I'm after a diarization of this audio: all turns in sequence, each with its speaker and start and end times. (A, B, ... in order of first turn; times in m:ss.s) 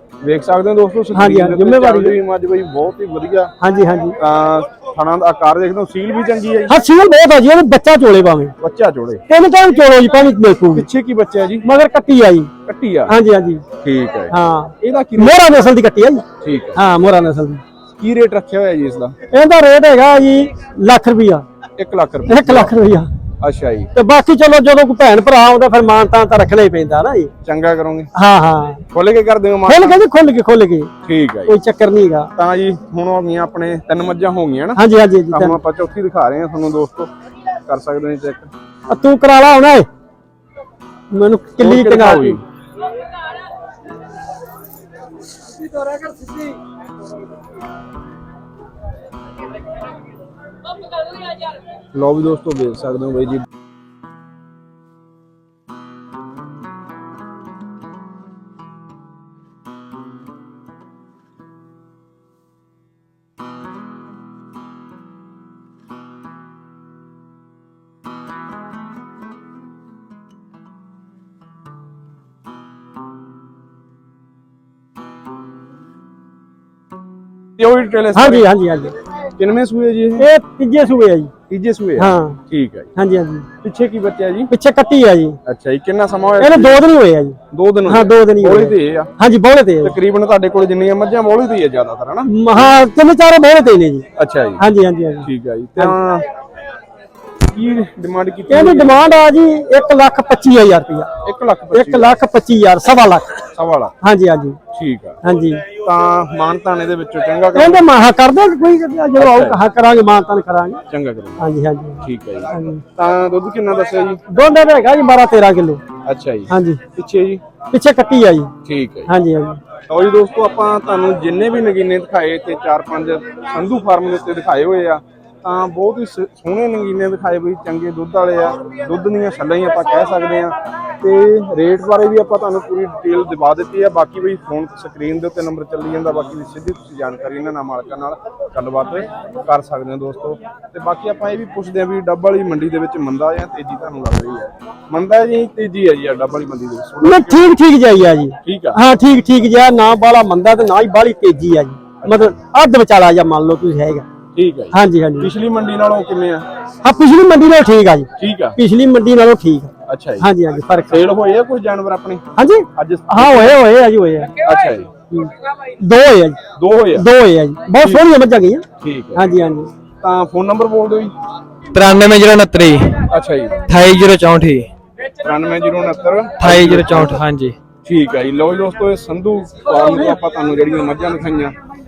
0:00.2-0:03.5 A
0:01.1-0:02.2 B
0:03.6-0:04.2 B
0:04.2-0:06.7 A
0:06.7-0:08.5 B
0:08.6-0:09.2 A
0:09.3-0:10.9 B
0:10.7-0:11.6 A
0:11.6-0:12.5 B
0:12.6-0:13.2 A
0:13.1-0:13.6 B
0:13.8-0:15.6 A
0:14.3-0:17.6 B
0:16.4-0:16.8 A
0:18.0-0:19.1 A
0:19.3-0:21.4 B
0:21.8-0:22.7 A
0:22.3-0:23.1 B
0:23.4-0:23.9 A
0:23.9-0:27.3 B
0:27.4-0:28.1 A
0:28.1-0:28.8 B
0:28.9-0:30.0 A
0:29.7-0:30.9 B
0:31.0-0:31.5 A
0:31.5-0:32.3 B
0:32.4-0:37.1 A
0:34.8-0:35.6 B
0:37.6-0:38.5 A
0:38.9-0:39.9 B
0:41.1-0:42.4 B
0:41.6-0:42.4 A
0:51.9-0:53.4 A
1:17.6-1:18.4 A
1:18.1-1:19.0 B
1:19.4-1:20.3 A
1:20.2-1:21.3 B
1:21.5-1:22.9 A
1:22.0-1:22.4 B
1:23.0-1:23.5 B
1:23.6-1:24.5 A
1:24.5-1:25.4 B
1:25.4-1:26.9 A
1:26.4-1:30.0 B
1:27.5-1:29.1 A
1:29.8-1:32.7 A
1:32.3-1:34.1 B
1:34.2-1:34.6 A
1:34.6-1:36.0 B
1:35.2-1:36.3 A
1:37.5-1:39.1 A
1:38.5-1:41.1 B
1:41.2-1:42.2 A
1:41.7-1:43.4 B
1:43.5-1:43.9 A
1:44.0-1:44.6 B
1:44.7-1:45.2 A
1:45.2-1:45.6 B
1:45.8-1:47.8 A
1:47.5-1:50.8 B
1:49.2-1:49.6 A
1:50.9-1:51.5 A
1:51.4-1:52.8 B
1:52.0-1:54.2 A
1:54.3-1:55.8 B
1:56.0-1:57.4 A
1:56.5-1:56.8 B
1:57.7-1:58.5 B
1:58.6-1:59.1 A
1:59.1-1:59.6 B
1:59.9-2:27.5 A
2:27.0-2:34.0 B
2:28.4-2:28.8 A
2:32.0-2:32.3 A
2:34.4-2:36.4 A
2:34.7-2:35.3 B
2:36.8-2:41.0 B
2:38.2-2:38.6 A
2:39.9-2:40.3 A
2:40.8-2:43.6 A
2:42.4-2:44.3 B
2:44.4-2:44.9 A
2:45.1-2:46.4 B
2:46.6-2:47.1 A
2:46.9-2:49.7 B
2:48.8-2:49.3 A
2:50.0-2:51.1 A
2:51.7-2:53.1 C
2:53.1-2:53.6 A
2:53.6-2:54.7 C
2:55.1-2:57.2 A
2:56.4-2:57.6 C
2:57.8-3:01.6 A